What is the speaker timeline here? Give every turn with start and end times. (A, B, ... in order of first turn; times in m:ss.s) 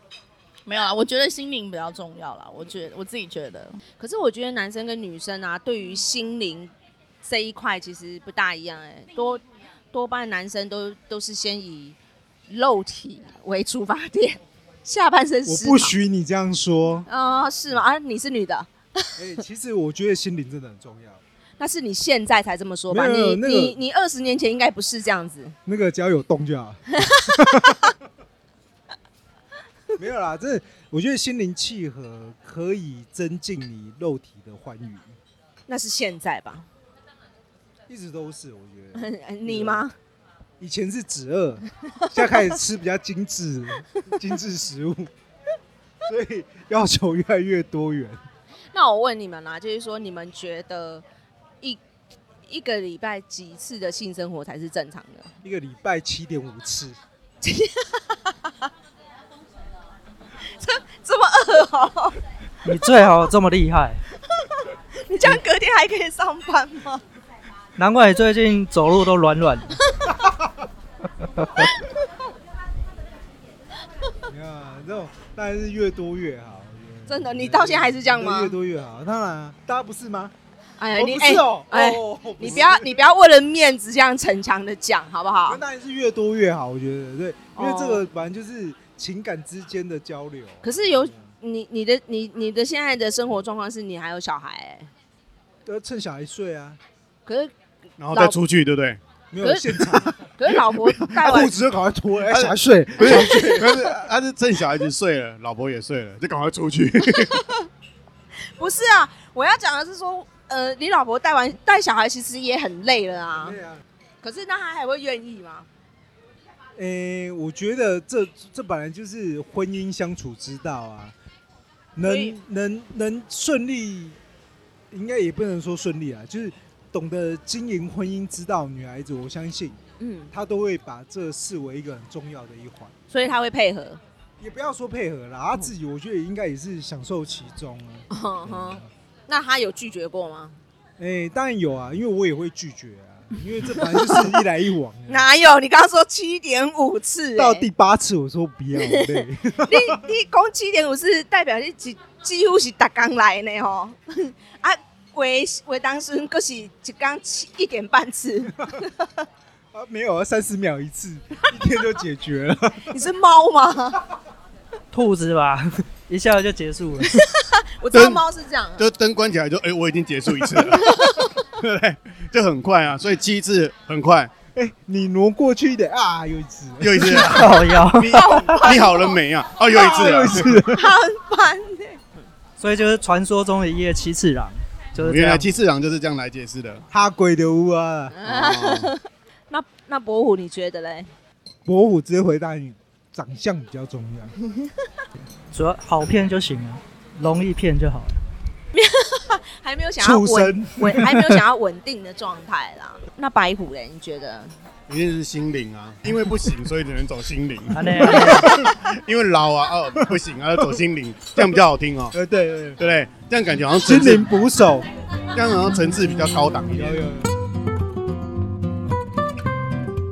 0:00.6-0:03.8 A
0:04.0-0:06.7 B
0:07.2-0:12.0 B
0:12.5-0:16.0 B
0:15.5-0:17.1 C
0:17.1-0:19.4 B
0:19.2-0:21.2 C
0:21.6-0:25.6 B
0:22.9-0:23.8 C
0:25.6-0:26.8 C
0:27.1-0:27.6 B
0:27.4-0:27.9 C
0:30.0-0:35.2 C
0:35.7-0:36.7 B
0:37.9-0:39.9 C
0:38.9-0:39.9 B
0:40.6-0:45.1 C
0:42.0-0:42.5 B
0:46.0-0:48.2 C
0:48.7-0:51.0 B
0:52.5-0:55.3 B
0:55.4-0:57.0 C
0:57.4-0:58.5 B
1:00.6-1:02.2 B
1:02.6-1:04.0 D
1:05.1-1:07.0 B
1:07.8-1:09.8 D
1:10.2-1:10.5 C
1:14.2-1:20.3 C
1:17.1-1:18.6 B
1:20.8-1:25.6 B
1:21.0-1:23.0 C
1:25.5-1:31.3 C
1:27.6-1:28.1 B
1:30.6-1:34.9 B
1:35.6-1:36.8 C
1:37.2-1:37.5 B
1:38.0-1:39.0 E
1:38.1-1:38.4 B
1:39.3-1:43.9 C
1:39.4-1:41.5 B
1:42.3-1:47.4 E
1:47.1-1:47.5 B
1:48.6-1:53.6 B
1:53.4-1:53.8 C
1:54.2-1:55.7 B
1:56.8-2:01.1 C
2:02.0-2:04.2 C
2:02.0-2:02.4 B
2:04.9-2:09.8 C
2:10.0-2:10.3 B
2:10.3-2:12.9 C
2:13.1-2:14.0 B
2:14.4-2:18.9 C
2:18.1-2:20.6 B
2:21.0-2:25.3 C
2:23.7-2:24.4 B
2:25.1-2:27.7 B
2:27.4-2:30.0 C
2:28.8-2:39.1 B
2:39.7-2:43.0 C
2:42.9-2:44.0 B
2:44.9-2:47.2 D
2:47.2-2:48.8 B
2:47.9-2:48.2 E
2:48.8-2:54.3 E
2:54.5-2:57.5 C
2:56.8-3:00.7 E
2:57.1-2:58.5 D
2:58.1-2:59.2 B
2:59.7-3:02.0 B
2:59.7-3:00.8 C
3:02.6-3:05.6 D
3:05.0-3:06.8 E
3:06.9-3:08.2 C
3:08.1-3:11.1 B
3:08.2-3:08.9 E
3:11.6-3:14.3 C
3:15.5-3:18.2 D
3:18.7-3:24.5 B
3:20.0-3:21.1 C
3:24.9-3:32.2 E
3:27.7-3:28.5 D
3:28.0-3:28.7 C
3:30.1-3:30.8 C
3:31.4-3:32.8 C
3:32.8-3:34.3 E
3:33.7-3:34.9 C
3:35.3-3:37.1 E
3:36.7-3:37.3 C